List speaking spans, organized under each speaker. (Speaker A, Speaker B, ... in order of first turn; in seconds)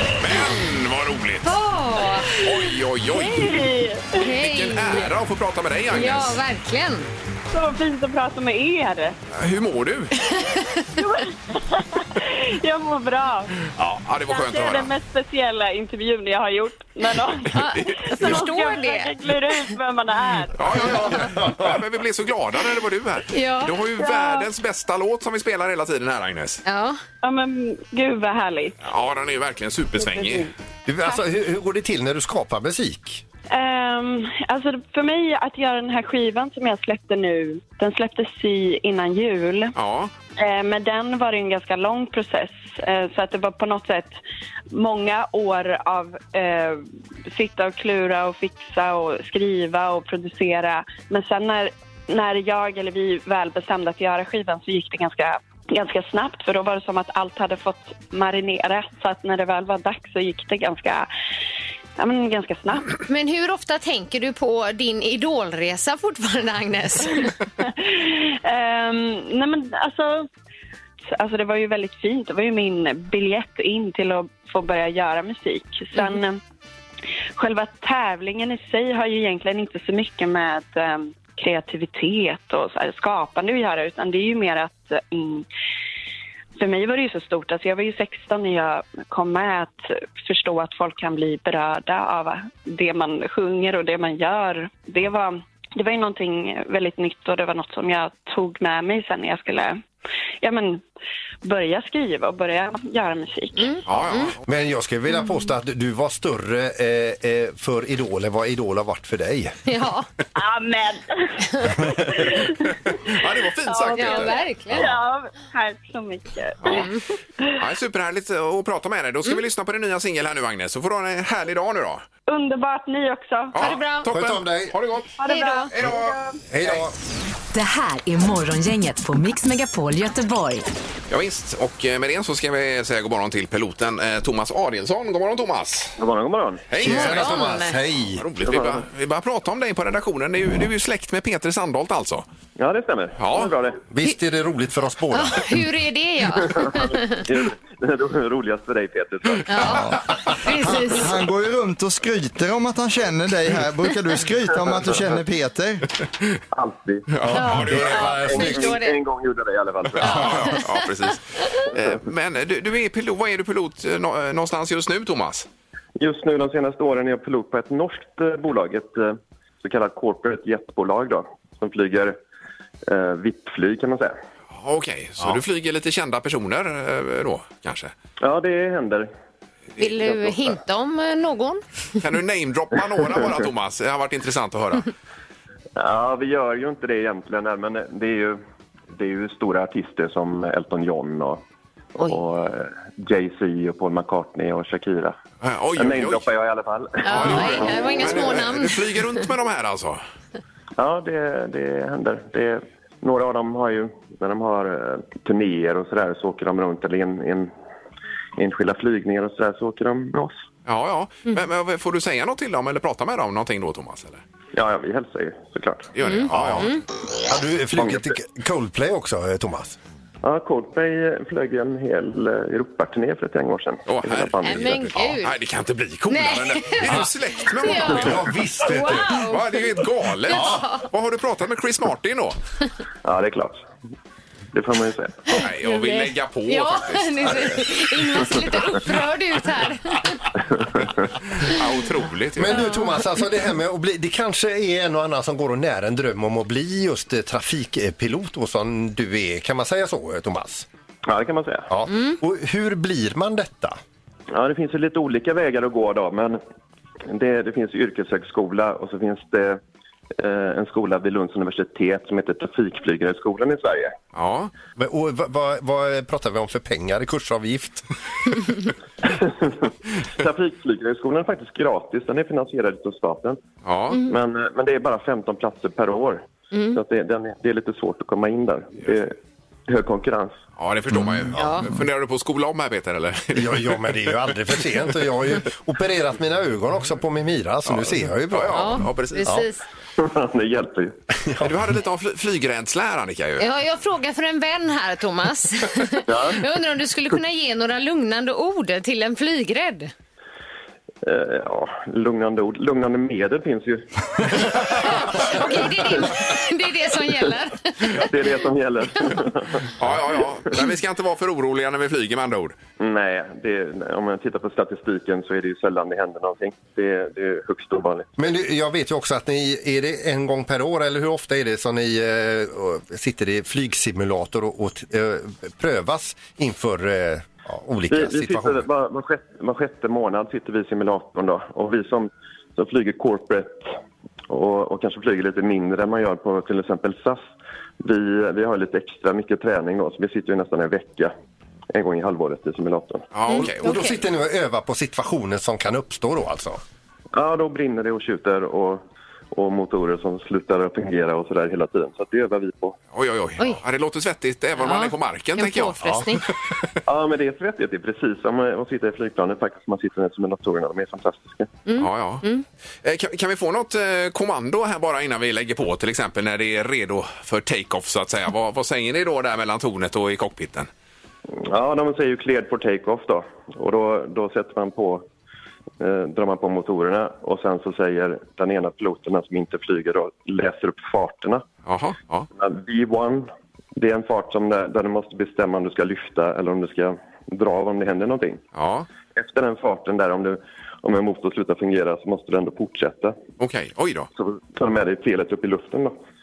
Speaker A: 0.2-1.5, 2.4-3.6, 4.4-6.4, 9.3-10.2, 13.8-14.9, 20.6-26.6, 28.8-30.5, 39.7-40.1, 103.8-104.4, 113.0-114.8, 116.6-116.9, 117.6-122.0, 123.5-125.1, 125.7-126.9, 131.1-135.9, 136.7-137.4, 138.2-142.2, 143.2-143.5, 157.1-158.1, 160.0-165.5, 174.5-177.9, 182.0-184.9, 195.4-196.2, 197.1-200.0, 210.7-214.2, 215.9-216.8, 223.8-228.2, 229.1-232.4, 235.3-237.7, 241.4-242.6, 264.1-264.5, 273.6-274.0, 280.6-283.8, 287.7-289.3, 291.4-293.5, 309.8-312.6, 343.1-343.7, 352.9-356.3, 361.8-362.2, 362.8-370.7, 381.6-382.3, 388.5-388.9, 393.4-394.1
Speaker B: 1.4-2.5, 4.1-5.1, 5.9-7.1, 10.3-10.8, 17.5-19.2, 23.3-23.8, 26.6-27.0, 63.1-67.3, 103.5-104.3, 109.7-110.1, 113.9-114.9, 116.7-117.0, 123.6-124.1, 125.2-125.7, 136.8-137.8, 145.1-147.3, 149.5-151.2, 157.3-159.0, 160.0-161.6, 179.8-181.6, 197.0-199.0, 216.0-216.8, 224.4-225.4, 226.1-230.8, 235.4-240.2, 242.5-242.9, 276.5-276.8, 281.3-281.7, 288.5-289.6, 293.4-299.9, 304.8-308.0, 343.3-344.0, 354.6-356.2, 361.7-362.4
Speaker C: 3.0-4.2, 7.5-9.2, 11.0-13.5, 14.3-21.1, 24.0-24.5, 27.2-28.8, 29.9-30.5, 33.5-39.7, 40.4-44.1, 44.7-61.1, 62.0-63.0, 67.6-70.3, 71.1-76.4, 77.4-85.5, 86.6-99.8, 100.4-100.8, 101.4-103.8, 110.3-117.6, 122.3-123.6, 125.2-126.4
Speaker D: 21.2-21.7, 30.9-33.2, 104.5-109.6, 124.0-124.8, 126.5-126.9, 136.8-138.3, 143.9-145.6, 157.2-158.8, 216.3-216.7, 217.3-219.8, 227.7-229.2, 230.3-230.6, 242.4-250.7, 251.7-253.8, 264.8-267.9, 283.3-289.5, 318.2-328.7, 343.3-346.6
Speaker E: 127.5-130.7
Speaker F: 136.0-136.6, 138.4-138.8, 142.6-143.8, 146.4-149.7, 156.5-160.6, 166.0-172.2, 172.9-174.1, 178.2-179.1, 179.8-180.5, 185.8-188.4, 188.9-191.4, 192.1-195.2, 195.8-198.3, 200.8-207.5, 208.4-210.3, 214.5-215.9, 217.8-218.1, 220.2-224.9, 233.0-233.6, 234.5-235.4, 251.1-251.7, 254.3-256.4, 257.1-259.6, 260.2-263.9, 269.0-273.4, 274.1-279.1, 279.7-280.4, 290.0-291.1, 296.1-296.4, 301.0-306.3, 307.8-310.3, 312.8-318.1, 327.9-333.7, 334.3-341.1, 341.7-343.1, 347.1-348.8, 349.3-352.8, 356.9-361.5, 371.3-375.0, 375.8-381.4, 382.3-388.4, 389.1-393.1, 394.1-395.9
Speaker G: 149.6-150.0, 150.8-155.9